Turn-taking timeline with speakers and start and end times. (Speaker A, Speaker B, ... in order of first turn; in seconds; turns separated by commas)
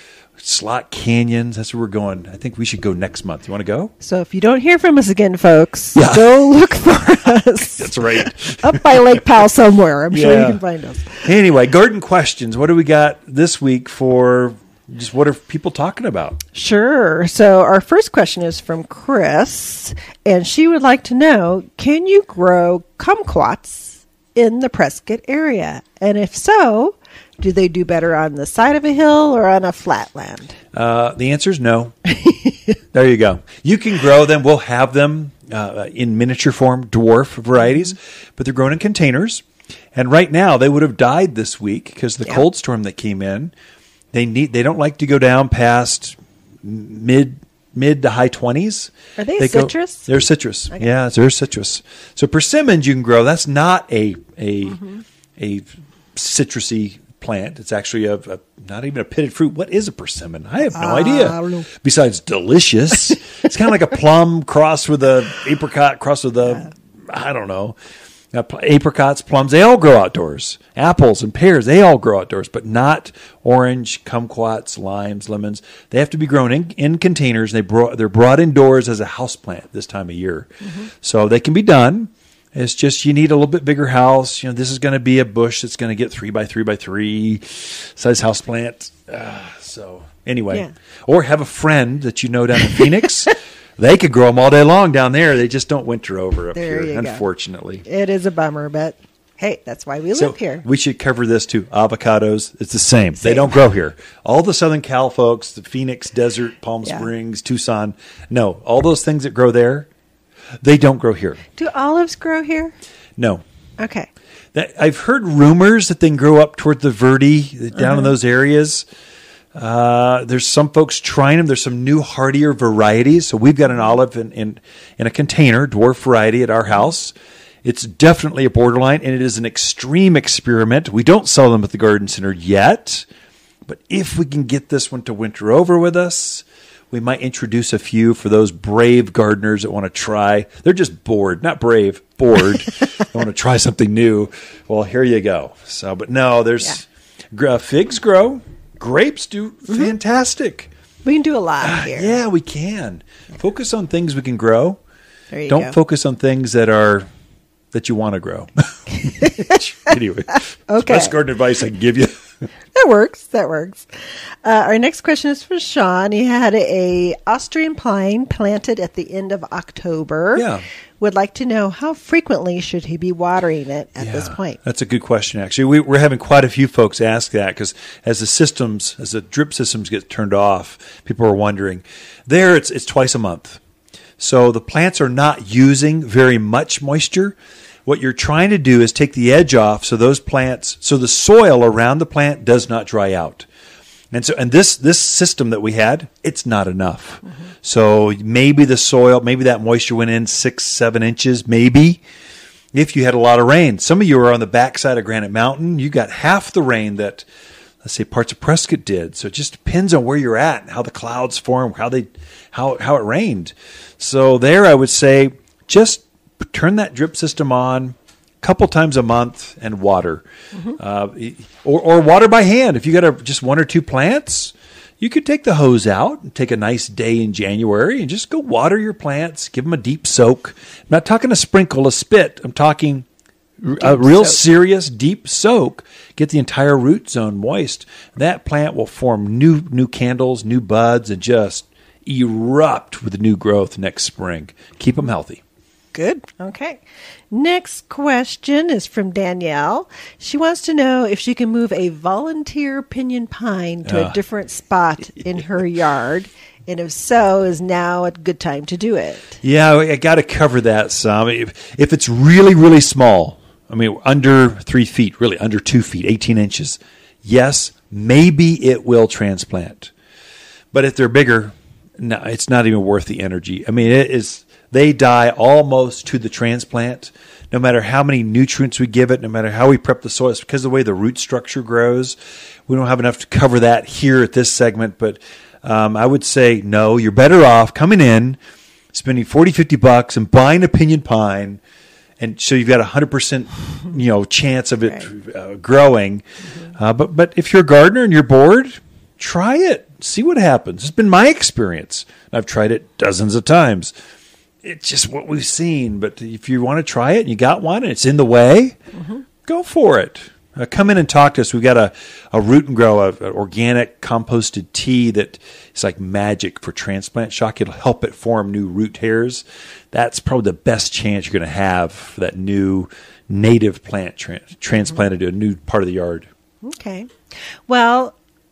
Speaker A: 0.4-3.9, Speaker B: 4.0-11.3, Speaker A: 6.0-6.4, Speaker A: 7.3-9.2, Speaker A: 10.1-10.6, Speaker A: 11.2-16.4, Speaker B: 16.6-30.6, Speaker A: 30.7-32.0, Speaker B: 32.2-32.5, Speaker A: 32.9-43.5, Speaker A: 44.1-67.8, Speaker B: 49.2-50.1, Speaker B: 60.7-61.7, Speaker A: 68.3-97.8, Speaker B: 96.5-97.2, Speaker B: 97.8-100.6, Speaker A: 100.2-109.9, Speaker B: 103.2-103.5, Speaker A: 110.6-111.4, Speaker B: 111.6-112.8, Speaker A: 113.2-113.4, Speaker B: 113.8-114.1, Speaker A: 114.5-118.9, Speaker A: 119.5-133.1, Speaker A: 133.7-150.7, Speaker B: 151.1-152.2, Speaker A: 151.6-154.8, Speaker B: 155.3-155.8, Speaker A: 155.5-157.1, Speaker A: 157.7-162.4, Speaker B: 160.7-161.1, Speaker B: 162.7-170.5, Speaker A: 170.3-170.7, Speaker B: 171.0-174.6, Speaker A: 174.0-183.6, Speaker A: 184.2-193.5, Speaker A: 194.1-202.0, Speaker A: 202.7-207.3, Speaker A: 207.8-220.2, Speaker A: 220.8-233.1, Speaker A: 233.6-245.4, Speaker B: 233.8-234.4, Speaker B: 245.9-259.4, Speaker A: 253.8-254.2, Speaker A: 259.4-269.9, Speaker A: 270.7-282.2, Speaker A: 282.7-288.4, Speaker A: 288.9-291.6, Speaker A: 292.2-303.9, Speaker A: 304.6-308.8, Speaker A: 309.4-326.3, Speaker B: 326.6-328.2